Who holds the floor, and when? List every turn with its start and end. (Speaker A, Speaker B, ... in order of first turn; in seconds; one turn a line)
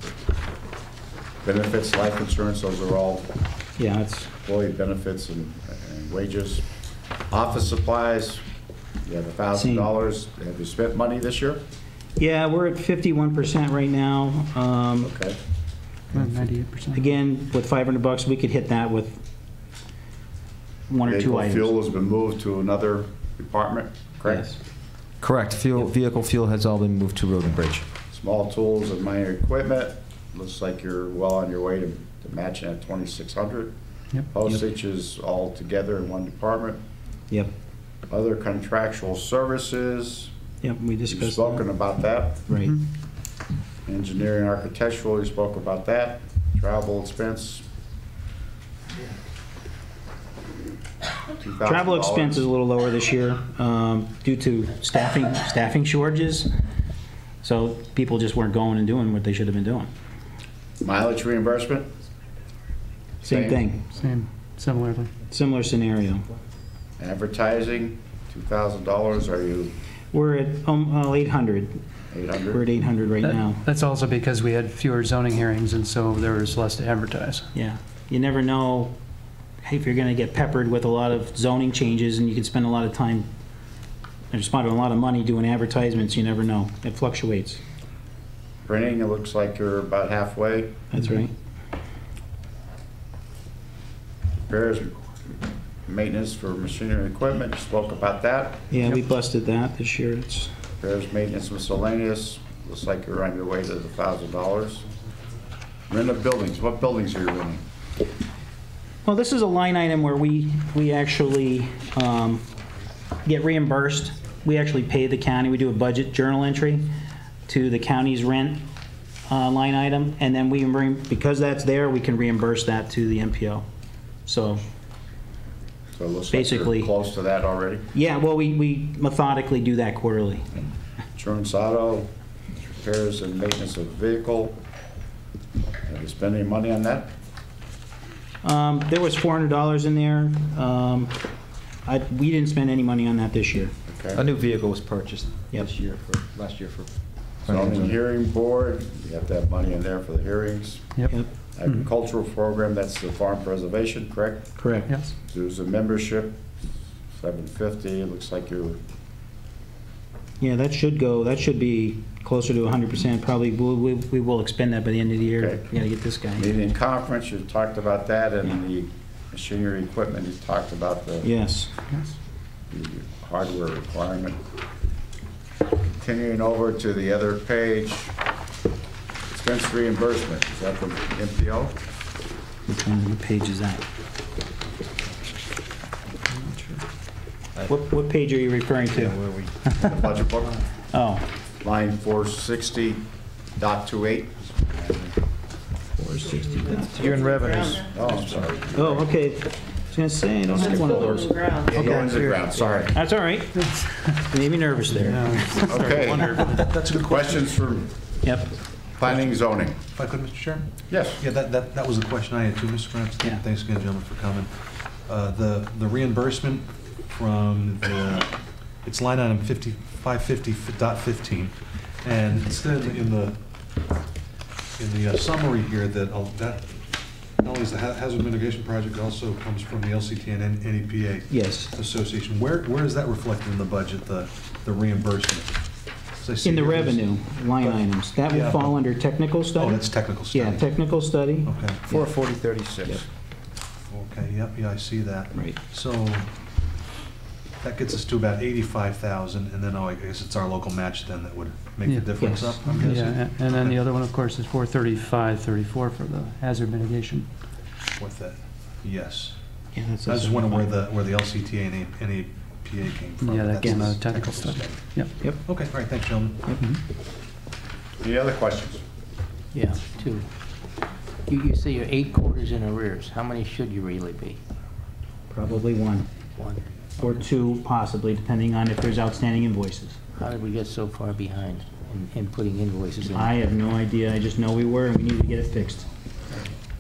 Speaker A: 1.4-3.3
Speaker B: 3.8-4.3
Speaker A: 4.4-6.7
Speaker A: 7.3-8.4
Speaker A: 9.0-11.6
Speaker B: 9.5-9.9
Speaker B: 12.2-15.1
Speaker A: 15.0-15.4
Speaker C: 16.1-17.0
Speaker B: 16.9-19.2
Speaker B: 20.9-21.7
Speaker A: 21.0-24.5
Speaker D: 25.2-27.9
Speaker A: 28.1-33.7
Speaker A: 34.3-36.8
Speaker A: 38.1-40.3
Speaker B: 40.6-41.6
Speaker A: 41.1-42.5
Speaker B: 42.5-42.8
Speaker A: 43.9-47.6
Speaker A: 51.4-52.5
Speaker B: 51.6-56.5
Speaker B: 57.4-59.9
Speaker A: 60.8-61.9
Speaker A: 63.2-63.6
Speaker B: 63.2-63.9
Speaker C: 63.9-65.1
Speaker B: 65.3-66.2
Speaker A: 67.0-69.7
Speaker B: 70.1-71.8
Speaker A: 72.1-72.6
Speaker B: 72.5-73.6
Speaker C: 73.2-77.5
Speaker B: 77.5-78.9
Speaker B: 79.6-83.3
Speaker B: 84.3-87.6
Speaker A: 88.7-90.8
Speaker B: 90.9-91.3
Speaker A: 94.5-95.0
Speaker A: 95.8-98.6
Speaker B: 98.7-100.5
Speaker A: 100.8-104.8
Speaker A: 105.9-107.6
Speaker B: 109.0-112.4
Speaker B: 113.2-116.9
Speaker B: 117.5-118.7
Speaker B: 119.3-123.7
Speaker B: 124.2-124.6
Speaker A: 126.0-127.9
Speaker B: 126.3-126.9
Speaker B: 127.9-130.5
Speaker A: 131.2-132.1
Speaker A: 132.8-134.6
Speaker A: 135.9-137.1
Speaker B: 138.4-141.2
Speaker B: 141.8-143.7
Speaker A: 143.9-144.2
Speaker D: 144.1-146.9
Speaker D: 147.4-147.9
Speaker A: 147.4-150.9
Speaker A: 151.5-154.6
Speaker B: 154.6-154.9
Speaker A: 155.3-156.4
Speaker A: 157.1-158.8
Speaker B: 160.4-166.5
Speaker A: 165.4-165.7
Speaker A: 166.3-171.3
Speaker B: 171.2-171.7
Speaker A: 172.7-174.4
Speaker A: 176.0-178.1
Speaker A: 179.3-181.8
Speaker B: 182.7-183.8
Speaker B: 187.7-189.9
Speaker D: 188.9-189.5
Speaker A: 189.8-190.6
Speaker B: 190.9-191.2
Speaker A: 191.6-195.1
Speaker B: 196.0-197.1
Speaker D: 196.7-197.9
Speaker A: 197.3-199.1
Speaker B: 198.7-202.1
Speaker A: 200.5-203.0
Speaker D: 201.8-202.9
Speaker B: 202.9-203.6
Speaker C: 203.6-204.1
Speaker B: 204.2-205.6
Speaker C: 204.9-206.7
Speaker A: 205.5-207.9
Speaker E: 205.8-207.5
Speaker B: 208.2-208.5
Speaker A: 208.9-209.8
Speaker E: 209.1-214.5
Speaker A: 210.9-211.2
Speaker E: 215.1-223.4
Speaker E: 224.8-226.8
Speaker E: 227.4-238.8
Speaker B: 231.3-231.7
Speaker B: 236.4-241.5
Speaker E: 239.5-240.9
Speaker E: 241.4-241.8
Speaker D: 241.9-243.0
Speaker E: 243.9-246.3
Speaker E: 247.6-253.8
Speaker C: 251.8-257.3
Speaker B: 252.2-252.5
Speaker E: 257.9-259.4
Speaker B: 259.7-260.7
Speaker E: 260.0-266.5
Speaker C: 263.2-265.1
Speaker B: 263.6-263.9
Speaker B: 266.4-266.7
Speaker A: 268.0-268.8
Speaker F: 269.5-270.3
Speaker F: 271.3-274.4
Speaker B: 275.3-276.2
Speaker F: 276.3-276.7
Speaker B: 277.0-280.0
Speaker F: 280.1-283.4
Speaker B: 283.1-285.9